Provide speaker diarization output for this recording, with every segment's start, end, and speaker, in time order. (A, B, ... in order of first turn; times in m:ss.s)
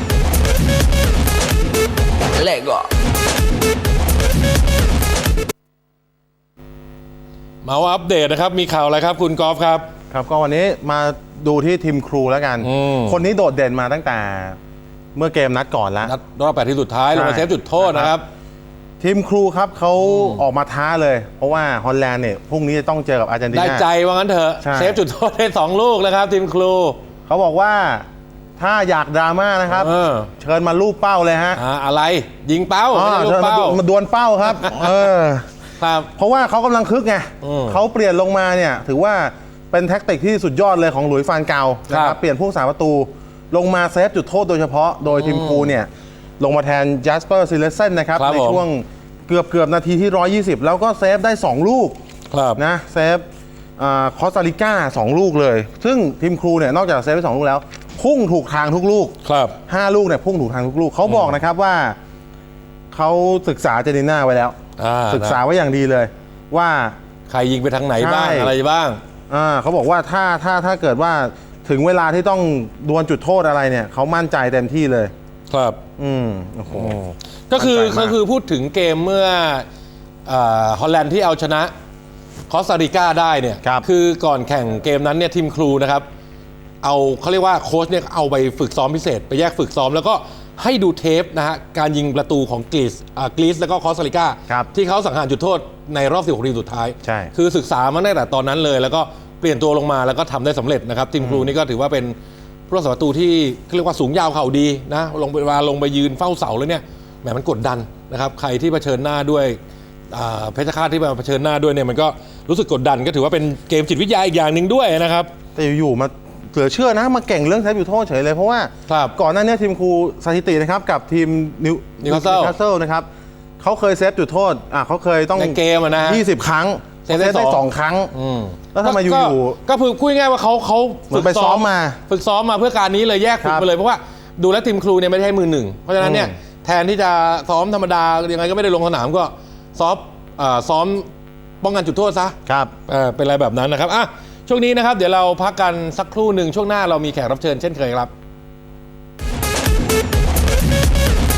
0:07.6-0:09.9 A
0:10.1-0:14.6 B
0:12.6-0:13.2 A
0:15.1-0:16.1 B
0:16.0-0:18.2 A
0:17.1-0:18.1 B
0:19.0-0:23.9 B
0:20.0-0:20.4 A
0:23.5-0:27.0 A
0:24.6-0:25.0 B
0:27.3-0:28.1 B
0:28.6-0:31.6 B
0:29.7-0:30.3 A
0:31.6-0:33.8 A
0:32.9-0:35.5 B
0:34.6-0:34.9 A
0:35.8-0:36.1 A
0:36.2-0:45.9 B
0:37.4-0:37.8 A
0:41.9-0:42.2 A
0:45.1-0:45.7 A
0:46.4-0:52.0 B
0:48.2-0:48.6 A
0:52.3-0:52.6 A
0:52.5-0:53.2 B
0:53.8-0:59.1 B
0:59.2-0:59.6 A
0:59.7-1:02.0 B
1:01.0-1:01.3 A
1:02.9-1:04.6 B
1:04.8-1:05.4 A
1:05.1-1:07.0 B
1:07.3-1:09.0 A
1:08.0-1:08.5 B
1:09.3-1:15.1 B
1:15.5-1:15.8 A
1:16.0-1:17.0 B
1:16.7-1:19.6 A
1:17.5-1:18.1 B
1:20.2-1:21.7 A
1:22.5-1:26.0 A
1:26.8-1:42.1 A
1:37.0-1:37.3 B
1:41.2-1:41.5 B
1:42.7-1:49.6 A
1:50.1-1:55.3 A
1:55.6-2:03.1 B
1:58.9-1:59.1 A
2:02.0-2:02.5 A
2:03.6-2:08.1 B
2:05.4-2:06.2 A
2:07.0-2:21.0 A
2:08.7-2:09.6 B
2:11.1-2:12.0 B
2:13.4-2:13.6 B
2:16.0-2:16.3 B
2:21.6-2:22.3 A
2:22.4-2:22.7 B
2:22.9-2:28.1 A